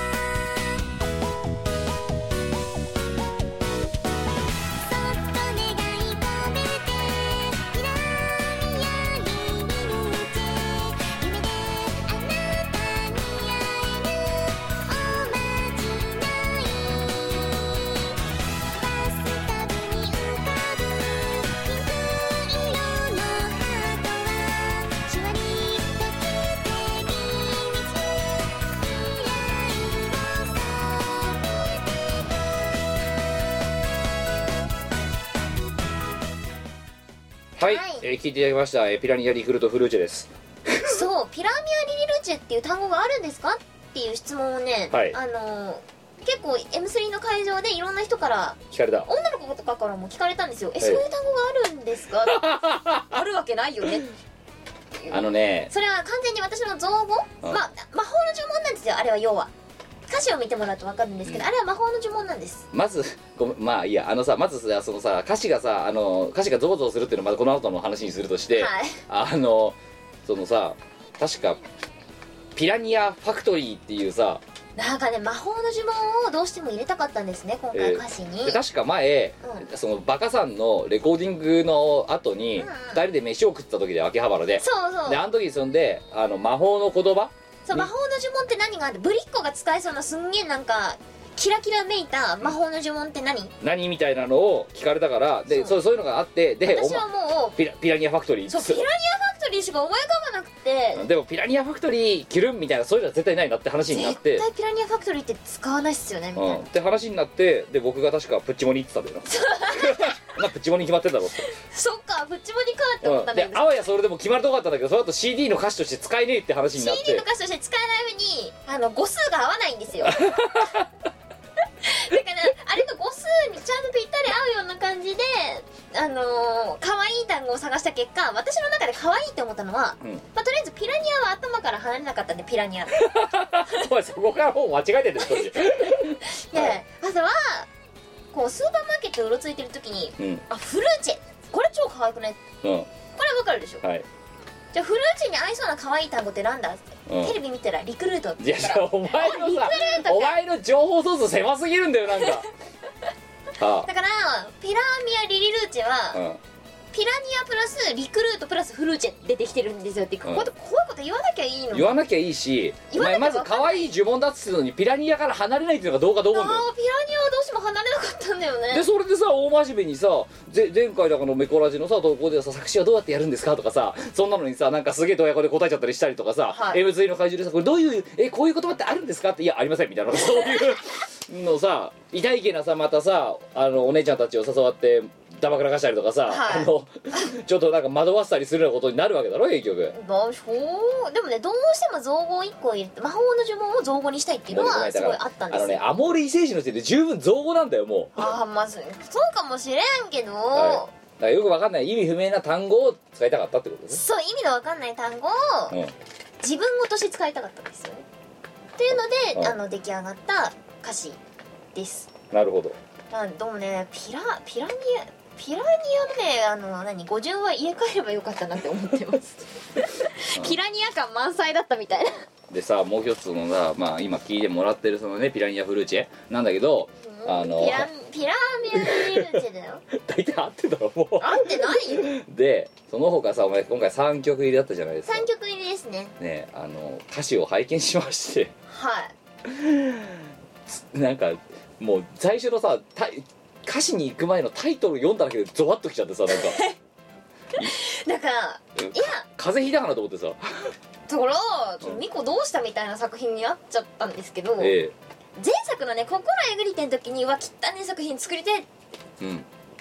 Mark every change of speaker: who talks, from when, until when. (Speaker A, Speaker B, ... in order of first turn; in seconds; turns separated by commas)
Speaker A: 4.8-18.2, Speaker A: 18.8-32.2, Speaker B: 37.6-41.0, Speaker C: 37.6-38.0, Speaker C: 40.8-52.4, Speaker B: 44.9-45.2, Speaker B: 48.7-49.1, Speaker B: 52.3-53.0, Speaker C: 53.0-54.1, Speaker C: 55.0-59.5, Speaker B: 55.1-55.7, Speaker C: 60.1-62.6, Speaker B: 62.7-71.6, Speaker C: 68.5-69.0, Speaker B: 72.5-74.4, Speaker C: 74.8-78.6, Speaker B: 77.7-87.9, Speaker C: 82.6-83.0, Speaker C: 84.6-85.2, Speaker C: 87.6-93.5, Speaker B: 93.6-98.8, Speaker C: 95.5-95.8, Speaker C: 96.6-97.6, Speaker C: 98.5-101.0, Speaker B: 100.9-104.5, Speaker C: 103.9-106.6, Speaker B: 106.3-111.5, Speaker C: 109.3-110.4, Speaker C: 111.5-113.7, Speaker B: 113.0-117.2, Speaker C: 116.7-120.6, Speaker B: 120.0-120.9, Speaker C: 121.8-133.1, Speaker B: 132.9-136.8, Speaker C: 135.2-137.7, Speaker C: 138.3-142.4, Speaker B: 140.2-140.4, Speaker B: 142.6-142.9, Speaker C: 143.1-143.8, Speaker C: 144.7-150.4, Speaker B: 147.1-147.4, Speaker B: 148.4-152.4, Speaker B: 153.6-153.9, Speaker C: 153.8-156.2, Speaker B: 156.1-156.4, Speaker C: 156.9-161.9, Speaker B: 160.2-160.5, Speaker B: 161.7-166.7, Speaker C: 162.9-163.9, Speaker C: 166.3-168.8, Speaker B: 168.7-189.9, Speaker C: 176.5-176.8, Speaker C: 186.3-187.2, Speaker C: 189.9-195.8, Speaker B: 194.5-198.2, Speaker C: 198.2-200.9, Speaker B: 200.5-204.0, Speaker C: 203.9-205.7, Speaker C: 206.4-208.0, Speaker C: 208.8-211.2, Speaker C: 211.7-212.1, Speaker B: 212.3-212.8, Speaker C: 213.1-222.2, Speaker B: 222.5-227.9, Speaker C: 227.0-229.8, Speaker B: 228.7-229.4, Speaker B: 229.9-235.3, Speaker C: 231.2-232.1, Speaker C: 235.1-236.1, Speaker B: 236.2-238.5, Speaker C: 238.7-239.1, Speaker B: 239.4-246.6, Speaker C: 246.3-246.7, Speaker C: 247.6-249.2, Speaker B: 248.8-250.7, Speaker C: 251.1-254.7, Speaker B: 254.6-254.9, Speaker C: 255.4-258.7, Speaker B: 259.2-259.5